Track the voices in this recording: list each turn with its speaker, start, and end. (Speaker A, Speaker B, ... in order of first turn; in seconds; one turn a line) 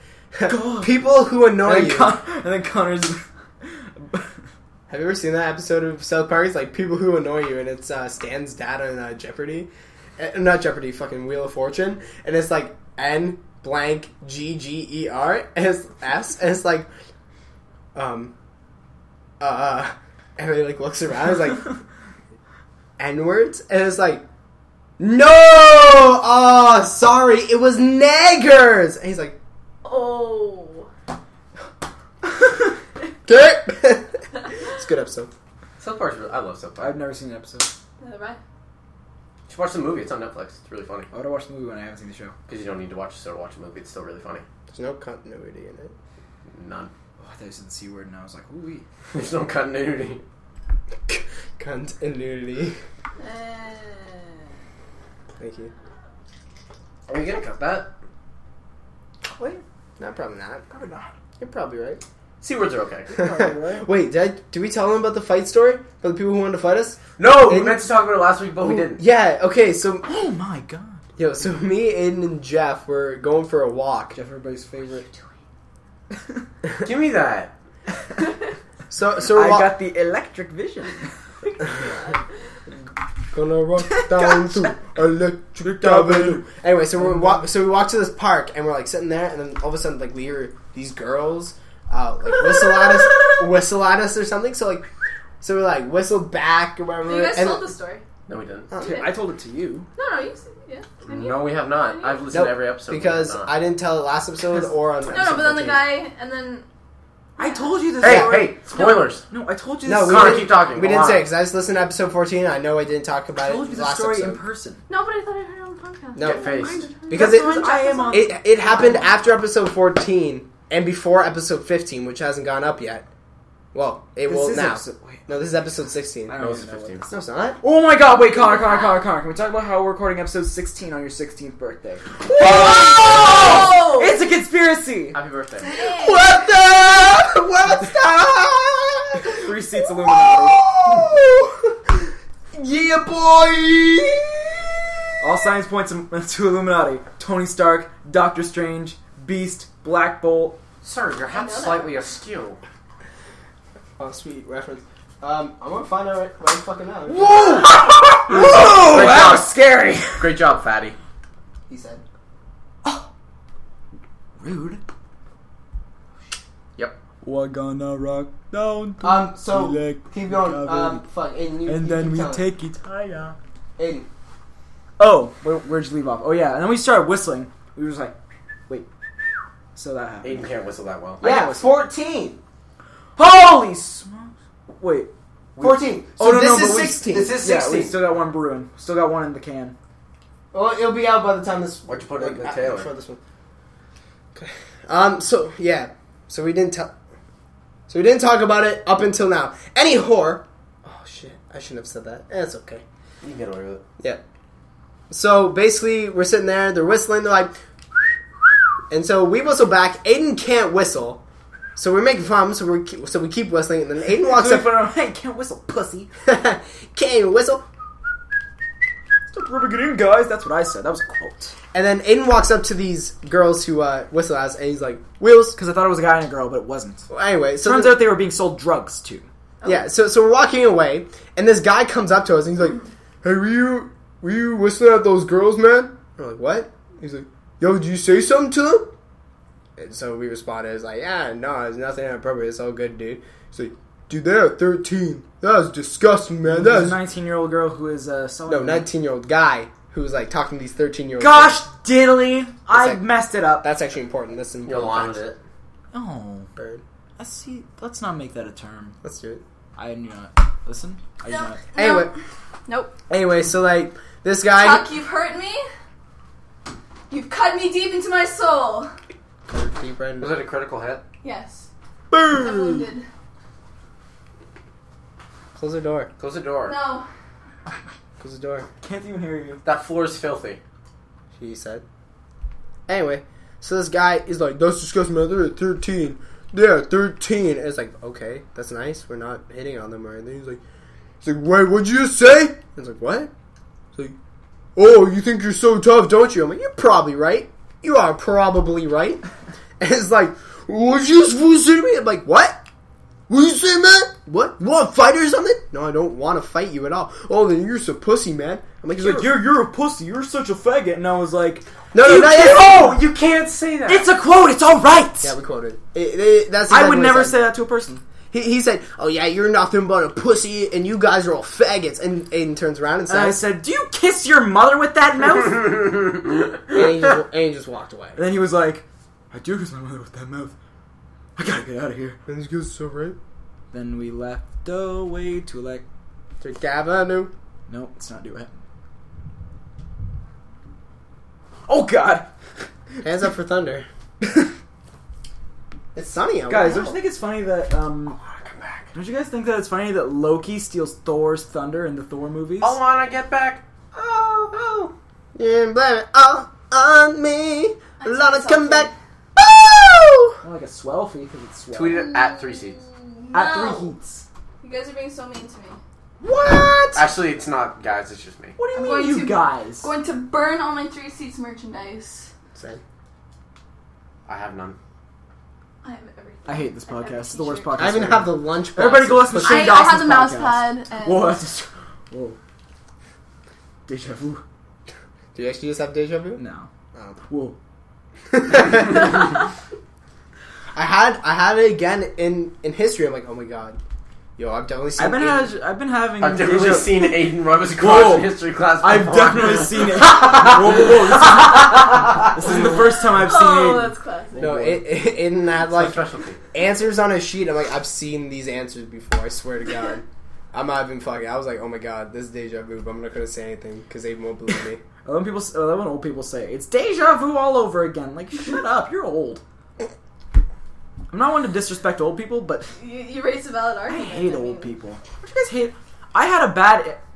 Speaker A: 0.3-2.2
Speaker B: 0.5-1.0
Speaker B: 1.6-4.3
Speaker A: 4.9-16.9
Speaker A: 17.9-18.3
Speaker A: 19.4-21.7
Speaker A: 23.0-24.2
Speaker A: 25.0-29.4
Speaker C: 29.8-30.9
Speaker A: 33.3-35.3
Speaker D: 35.8-37.0
Speaker B: 36.8-37.7
Speaker C: 38.0-38.4
Speaker D: 39.5-41.1
Speaker B: 41.1-42.4
Speaker D: 42.5-44.5
Speaker A: 44.7-45.9
Speaker D: 46.5-46.9
Speaker B: 47.2-48.9
Speaker D: 49.1-50.2
Speaker A: 51.1-52.8
Speaker C: 53.2-54.3
Speaker A: 55.4-55.7
Speaker D: 57.1-57.9
Speaker B: 59.2-59.6
Speaker A: 60.0-60.6
Speaker B: 60.7-61.1
Speaker A: 61.4-62.0
Speaker D: 62.4-63.1
Speaker B: 63.1-63.9
Speaker A: 63.2-67.9
Speaker D: 67.2-69.0
Speaker A: 68.6-70.1
Speaker B: 70.1-71.1
Speaker A: 71.2-74.2
Speaker B: 74.2-75.1
Speaker D: 76.8-77.5
Speaker A: 78.9-79.8
Speaker B: 79.3-81.1
Speaker C: 81.7-82.1
Speaker A: 83.3-94.9
Speaker B: 83.9-84.8
Speaker B: 85.6-87.5
Speaker A: 95.4-97.7
Speaker C: 97.0-98.0
Speaker D: 98.3-98.7
Speaker A: 98.7-99.1
Speaker C: 98.8-99.1
Speaker B: 98.8-99.9
Speaker C: 100.0-102.3
Speaker D: 101.0-103.5
Speaker A: 102.3-105.9
Speaker C: 105.1-106.7
Speaker C: 107.4-107.8
Speaker B: 107.4-110.4
Speaker D: 108.0-109.2
Speaker A: 108.0-108.4
Speaker A: 109.8-114.4
Speaker D: 110.0-111.3
Speaker B: 113.4-114.8
Speaker C: 114.9-118.3
Speaker A: 116.2-123.1
Speaker D: 116.2-116.9
Speaker B: 117.0-119.1
Speaker A: 123.7-126.4
Speaker B: 124.3-125.3
Speaker B: 126.3-127.0
Speaker D: 126.4-127.1
Speaker A: 127.1-127.6
Speaker B: 127.6-135.2
Speaker C: 128.1-129.0
Speaker A: 132.3-133.7
Speaker C: 133.1-134.2
Speaker D: 135.1-135.7
Speaker C: 135.6-136.3
Speaker A: 135.8-144.7
Speaker B: 139.3-140.6
Speaker B: 145.2-150.6
Speaker D: 150.8-152.6
Speaker C: 151.3-152.0
Speaker A: 154.0-157.7
Speaker B: 157.1-160.4
Speaker D: 157.3-159.6
Speaker D: 160.1-161.0
Speaker A: 161.7-162.0
Speaker B: 164.4-164.8
Speaker B: 167.2-171.1
Speaker A: 169.0-172.5
Speaker B: 171.7-172.9
Speaker D: 172.8-173.3
Speaker A: 173.8-174.1
Speaker B: 175.0-178.2
Speaker B: 179.8-180.4
Speaker D: 180.2-181.3
Speaker B: 181.2-181.7
Speaker A: 181.2-182.4
Speaker B: 183.2-185.1
Speaker D: 185.6-185.8
Speaker A: 185.6-187.4
Speaker B: 186.2-189.8
Speaker D: 187.1-188.0
Speaker A: 190.5-193.2
Speaker D: 191.9-192.9
Speaker A: 194.3-196.9
Speaker A: 197.9-202.8
Speaker D: 203.2-203.8
Speaker A: 205.1-208.2
Speaker A: 208.9-211.2
Speaker A: 211.8-214.8
Speaker B: 214.2-216.1
Speaker A: 216.2-217.7
Speaker B: 219.3-221.6
Speaker A: 221.7-225.6
Speaker B: 225.6-227.1
Speaker A: 227.1-228.1
Speaker B: 227.6-229.3
Speaker A: 229.6-238.9
Speaker A: 239.8-247.0
Speaker B: 246.5-248.9
Speaker A: 248.5-251.6
Speaker B: 251.2-253.7
Speaker A: 252.7-253.0
Speaker A: 253.6-255.2
Speaker D: 254.7-255.4
Speaker B: 255.9-256.5
Speaker A: 256.6-256.8
Speaker B: 257.2-259.0
Speaker A: 259.0-259.4
Speaker B: 259.8-261.6
Speaker C: 261.3-262.1
Speaker A: 261.8-262.1
Speaker C: 262.7-263.0
Speaker A: 263.1-264.9
Speaker C: 264.5-265.6
Speaker C: 267.1-268.9
Speaker A: 269.5-270.3
Speaker D: 270.2-271.0
Speaker C: 271.2-271.7
Speaker B: 272.1-272.8
Speaker C: 272.3-273.1
Speaker A: 275.6-276.1
Speaker D: 276.2-276.8
Speaker C: 276.6-277.1
Speaker A: 278.2-278.7
Speaker B: 278.8-279.6
Speaker D: 279.6-280.6
Speaker A: 281.4-281.8
Speaker A: 282.9-290.6
Speaker A: 291.2-293.3
Speaker A: 294.8-299.2
Speaker A: 299.8-302.6
Speaker A: 303.3-309.4
Speaker B: 309.0-312.7
Speaker A: 311.9-313.0
Speaker D: 312.1-314.1
Speaker B: 313.9-315.3
Speaker A: 315.2-317.4
Speaker B: 316.7-318.0
Speaker A: 318.3-323.4
Speaker B: 323.1-326.0
Speaker A: 326.7-328.2
Speaker B: 328.2-330.6
Speaker B: 331.4-332.2
Speaker A: 332.3-333.2
Speaker B: 333.7-335.8
Speaker A: 336.4-337.3
Speaker B: 337.7-338.5
Speaker B: 341.7-342.3
Speaker A: 343.0-343.9
Speaker A: 345.9-347.0
Speaker B: 346.5-348.2
Speaker D: 348.2-348.9
Speaker B: 348.9-352.8
Speaker D: 352.6-354.9
Speaker A: 355.4-360.4
Speaker C: 358.0-358.9
Speaker B: 360.4-362.1
Speaker D: 361.7-362.8
Speaker C: 362.1-363.9
Speaker B: 363.3-364.3
Speaker C: 364.6-365.8
Speaker A: 366.2-367.1
Speaker D: 366.9-368.6
Speaker B: 368.6-369.9
Speaker C: 368.7-372.3
Speaker A: 372.6-372.8
Speaker D: 374.3-374.8
Speaker C: 375.8-378.1
Speaker B: 376.5-382.4
Speaker A: 377.8-379.9
Speaker C: 379.4-381.5
Speaker B: 383.9-384.4
Speaker A: 385.4-386.4
Speaker B: 386.4-386.7
Speaker A: 386.9-387.2
Speaker B: 387.3-387.6
Speaker A: 388.3-389.3
Speaker A: 390.8-393.8
Speaker A: 394.4-395.5
Speaker B: 395.0-397.2
Speaker D: 396.2-402.3
Speaker B: 397.8-404.9
Speaker C: 403.1-404.4
Speaker A: 404.4-406.0
Speaker D: 405.6-406.4
Speaker A: 406.5-414.8
Speaker B: 415.1-419.4
Speaker B: 421.1-422.7
Speaker C: 422.8-424.7
Speaker B: 423.9-427.0